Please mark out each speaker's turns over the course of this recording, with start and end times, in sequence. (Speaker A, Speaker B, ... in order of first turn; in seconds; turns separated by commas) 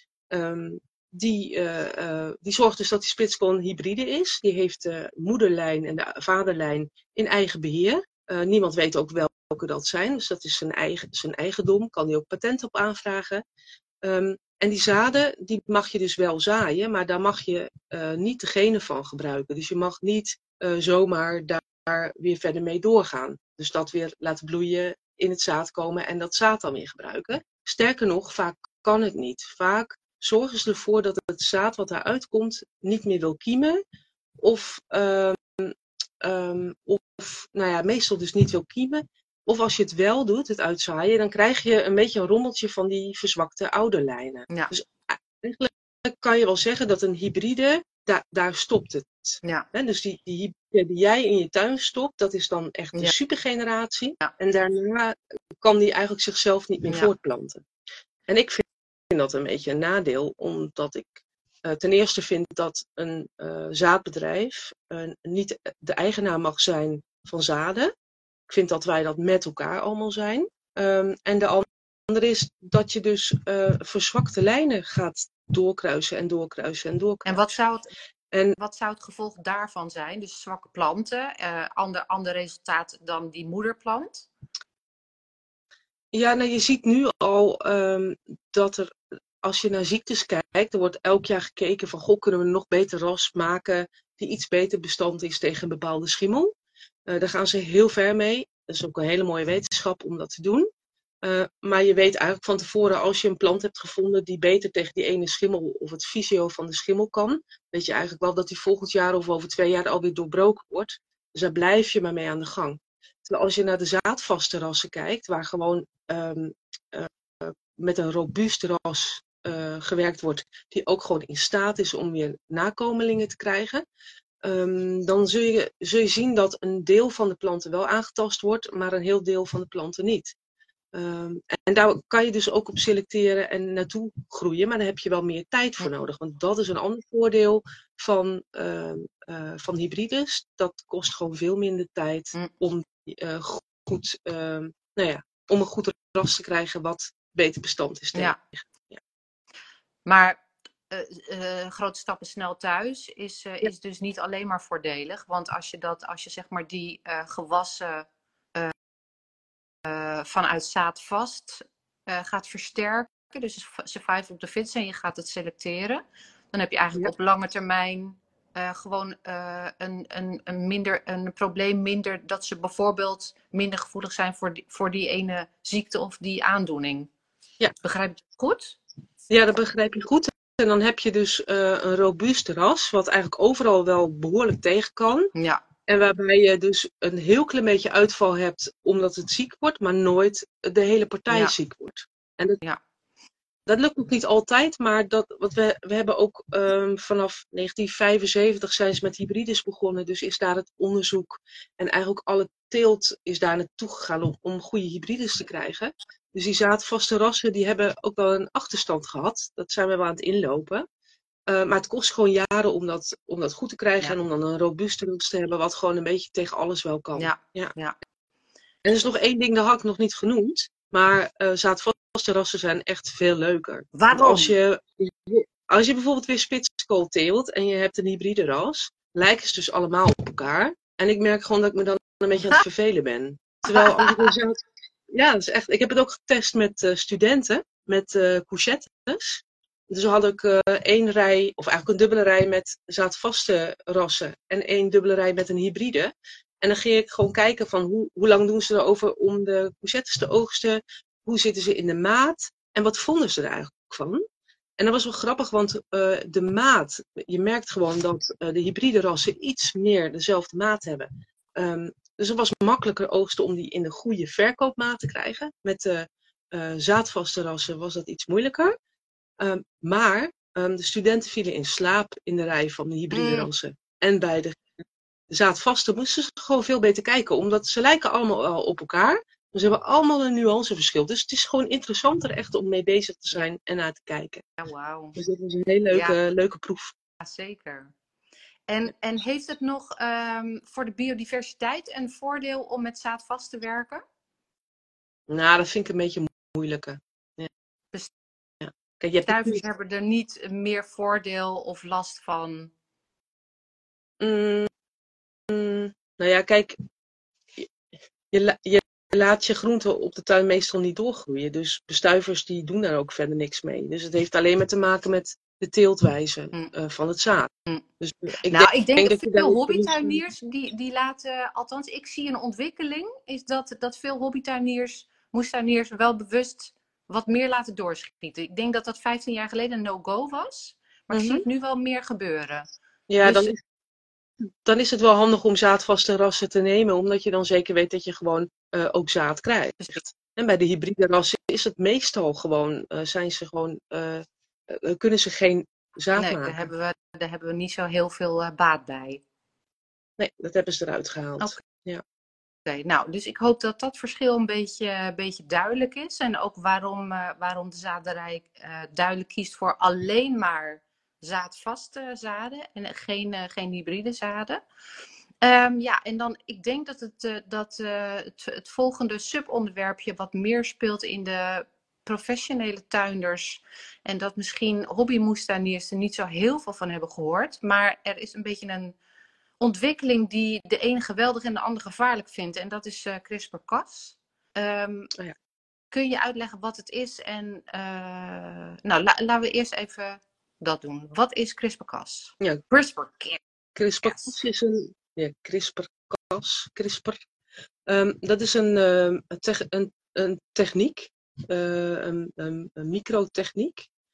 Speaker A: 0.3-13.4, Speaker A: 14.0-33.8, Speaker A: 34.4-57.6, Speaker A: 58.3-67.9, Speaker A: 68.5-77.5, Speaker B: 77.2-77.9, Speaker A: 78.3-78.6, Speaker B: 78.6-84.3, Speaker A: 86.1-96.5, Speaker A: 97.1-100.7, Speaker A: 101.2-123.8, Speaker A: 124.4-130.3, Speaker A: 130.9-149.0, Speaker B: 150.1-158.7, Speaker B: 159.8-177.1, Speaker B: 177.8-178.8, Speaker A: 179.3-185.3, Speaker B: 185.3-185.6, Speaker A: 185.9-192.6, Speaker A: 193.7-210.8, Speaker A: 211.5-217.7, Speaker B: 217.2-217.9, Speaker A: 218.8-254.2, Speaker B: 223.9-224.5, Speaker B: 233.7-234.3, Speaker A: 254.8-268.7, Speaker A: 269.4-274.6, Speaker B: 273.1-273.5, Speaker A: 275.3-284.4, Speaker B: 284.6-285.1, Speaker A: 285.1-286.9, Speaker B: 285.9-286.2, Speaker B: 287.2-287.9, Speaker B: 288.7-294.0, Speaker A: 295.3-297.5, Speaker A: 298.6-299.6, Speaker B: 299.2-302.7, Speaker A: 304.2-304.7, Speaker A: 305.5-306.8, Speaker A: 308.3-320.2, Speaker B: 318.5-332.7, Speaker A: 331.1-331.4, Speaker A: 333.1-333.6, Speaker B: 333.2-333.5, Speaker A: 334.6-346.7, Speaker B: 346.1-349.2, Speaker A: 350.2-352.0, Speaker B: 352.6-364.6, Speaker B: 365.4-378.9, Speaker B: 379.6-385.1, Speaker B: 385.9-393.4, Speaker A: 393.7-397.2, Speaker B: 394.0-394.3, Speaker A: 397.9-403.9